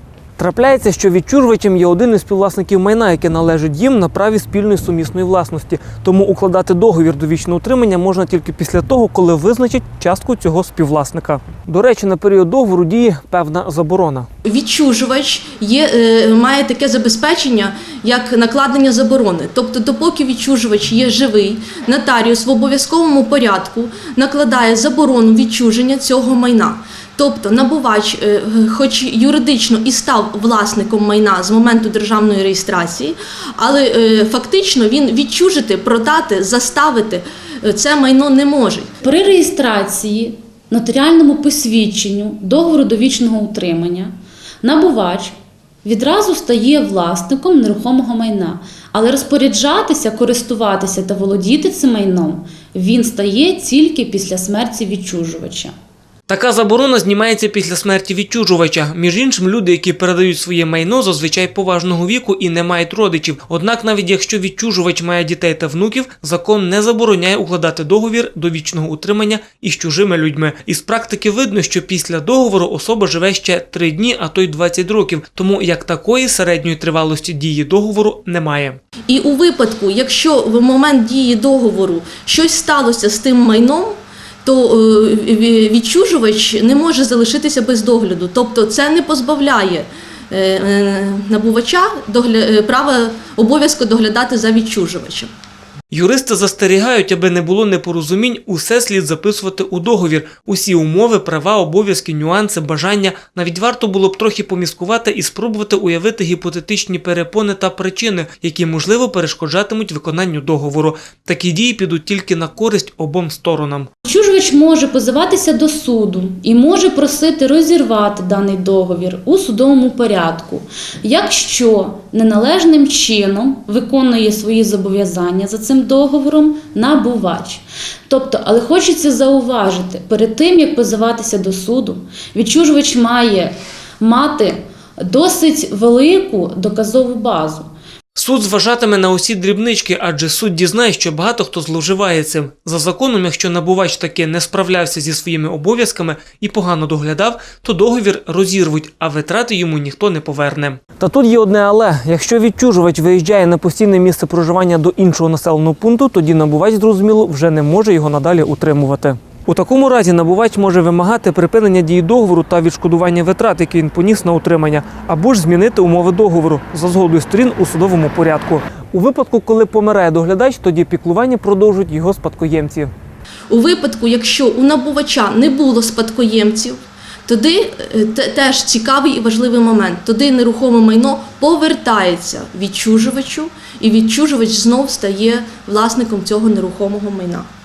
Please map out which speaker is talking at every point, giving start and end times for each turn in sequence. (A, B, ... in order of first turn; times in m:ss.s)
0:00.4-0:14.3 A
0:14.4-0:38.9 B
0:39.0-0:55.7 C
0:56.3-1:18.8 A
1:19.1-1:35.3 B
1:35.9-1:53.9 A
1:54.0-2:17.7 C
2:18.2-2:52.9 A
2:53.5-3:07.4 B